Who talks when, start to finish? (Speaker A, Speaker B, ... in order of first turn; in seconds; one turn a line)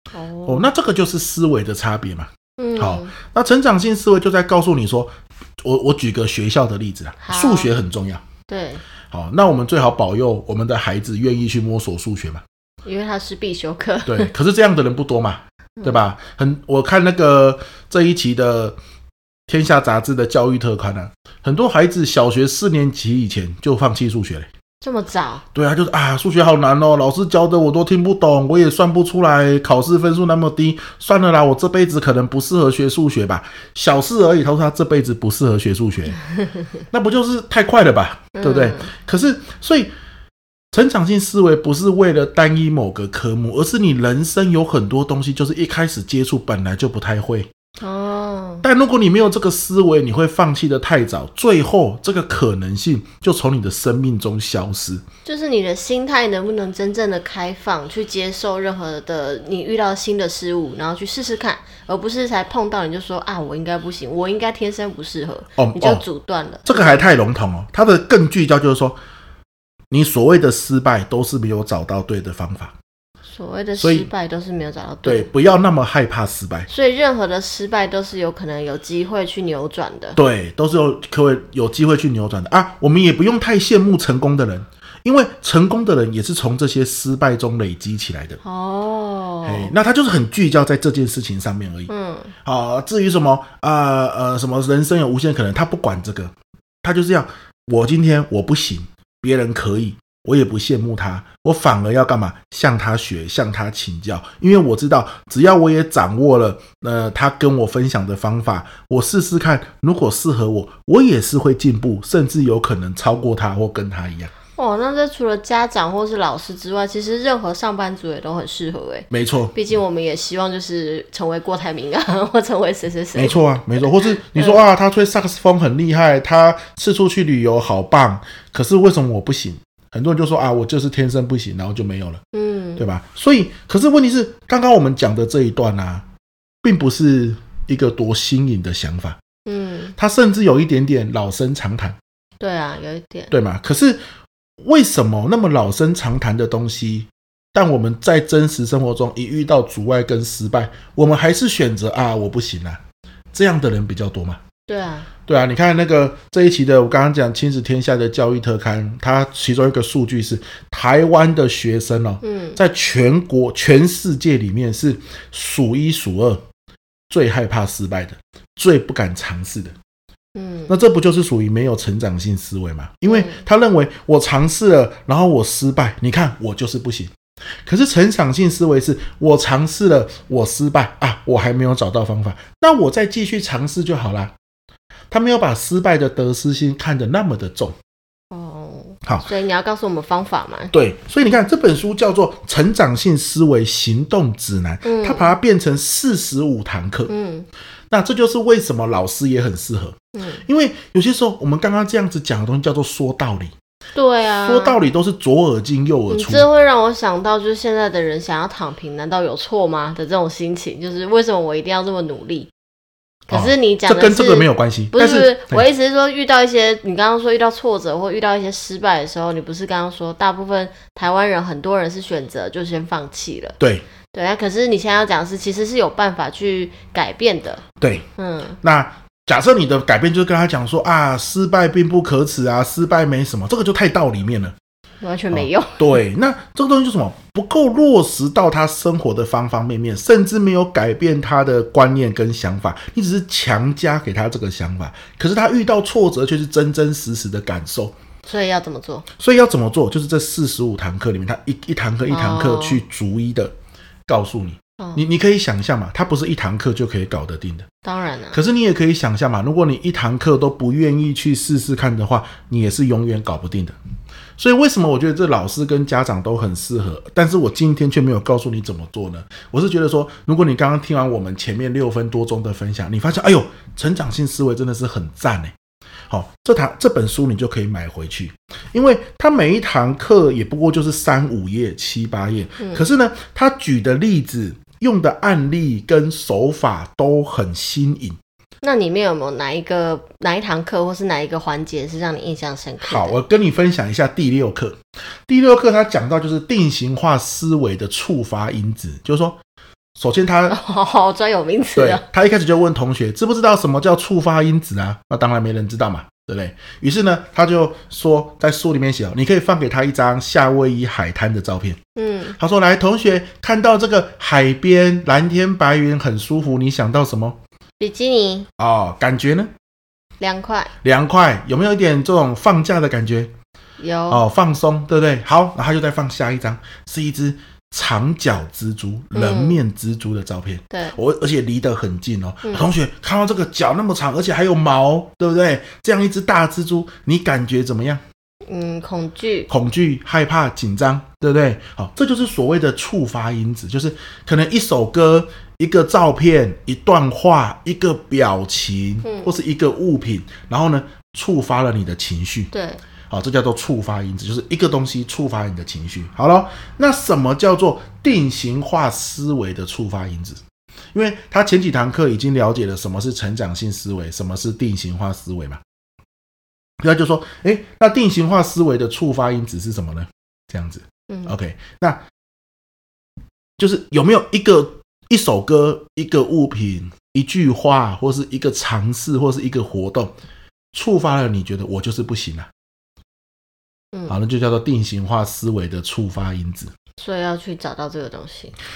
Speaker A: 0.1-0.7
Speaker B: 0.5-8.2
Speaker A: 2.6-3.1
Speaker A: 7.2-7.7
Speaker A: 8.5-8.8
Speaker B: 9.1-12.4
Speaker A: 12.8-14.3
Speaker B: 14.1-18.8
Speaker B: 19.5-24.5
Speaker A: 24.8-25.4
Speaker B: 25.5-36.2
Speaker B: 36.9-39.9
Speaker A: 38.3-38.9
Speaker B: 40.7-47.5
Speaker A: 47.8-48.6
Speaker B: 48.6-55.0
Speaker A: 55.2-67.1
Speaker B: 65.6-66.0
Speaker B: 66.7-69.0
Speaker B: 69.9-72.8
Speaker A: 73.3-75.3
Speaker B: 73.8-74.1
Speaker B: 75.0-76.7
Speaker A: 76.7-80.2
Speaker B: 80.2-88.4
Speaker A: 88.4-89.7
Speaker B: 89.4-91.9
Speaker A: 91.9-92.3
Speaker B: 92.4-114.3
Speaker A: 114.5-124.6
Speaker B: 119.1-119.5
Speaker B: 123.2-132.2
Speaker A: 132.3-132.8
Speaker B: 132.8-136.1
Speaker B: 136.6-139.2
Speaker A: 139.5-139.9
Speaker B: 140.0-142.0
Speaker A: 142.4-143.3
Speaker B: 143.3-144.0
Speaker B: 144.6-152.8
Speaker B: 153.3-154.4
Speaker A: 154.7-155.1
Speaker B: 155.3-166.4
Speaker A: 162.2-162.6
Speaker B: 167.1-169.7
Speaker A: 170.3-170.7
Speaker B: 170.7-177.1
Speaker A: 173.1-173.4
Speaker B: 177.7-184.3
Speaker B: 185.1-187.7
Speaker A: 188.3-190.7
Speaker B: 190.7-197.1
Speaker A: 194.8-195.3
Speaker A: 197.1-197.5
Speaker B: 197.9-203.5
Speaker A: 200.1-200.4
Speaker A: 203.9-204.8
Speaker B: 204.4-206.5
Speaker A: 206.1-212.5
Speaker A: 213.3-223.6
Speaker B: 213.3-215.7
Speaker B: 223.6-223.8
Speaker A: 224.1-227.6
Speaker B: 227.8-228.1
Speaker A: 228.2-228.6
Speaker B: 228.6-234.5
Speaker A: 235.0-236.0
Speaker B: 235.3-248.0
Speaker A: 248.2-249.0
Speaker B: 249.2-253.5
Speaker A: 252.1-252.8
Speaker B: 254.1-257.7
Speaker A: 257.8-258.4
Speaker B: 258.3-263.8
Speaker B: 264.4-275.5
Speaker B: 276.1-288.2
Speaker A: 288.6-293.2
Speaker B: 292.8-299.4
Speaker B: 300.0-300.6
Speaker A: 300.5-302.0
Speaker B: 301.8-311.8
Speaker A: 312.0-312.4
Speaker B: 312.4-317.4
Speaker A: 317.8-318.5
Speaker B: 318.6-319.5
Speaker A: 320.2-320.7
Speaker B: 320.8-323.3
Speaker A: 323.8-324.2
Speaker B: 324.1-338.0
Speaker A: 329.1-329.6
Speaker A: 330.7-331.0
Speaker A: 332.4-332.7
Speaker A: 338.5-339.5
Speaker B: 339.5-352.5
Speaker A: 349.0-349.3
Speaker A: 352.5-352.8
Speaker B: 353.1-360.4
Speaker B: 360.9-365.6
Speaker B: 366.8-372.0
Speaker A: 371.1-371.4
Speaker B: 373.6-380.1
Speaker B: 380.7-382.5
Speaker B: 384.1-386.7
Speaker A: 387.0-388.5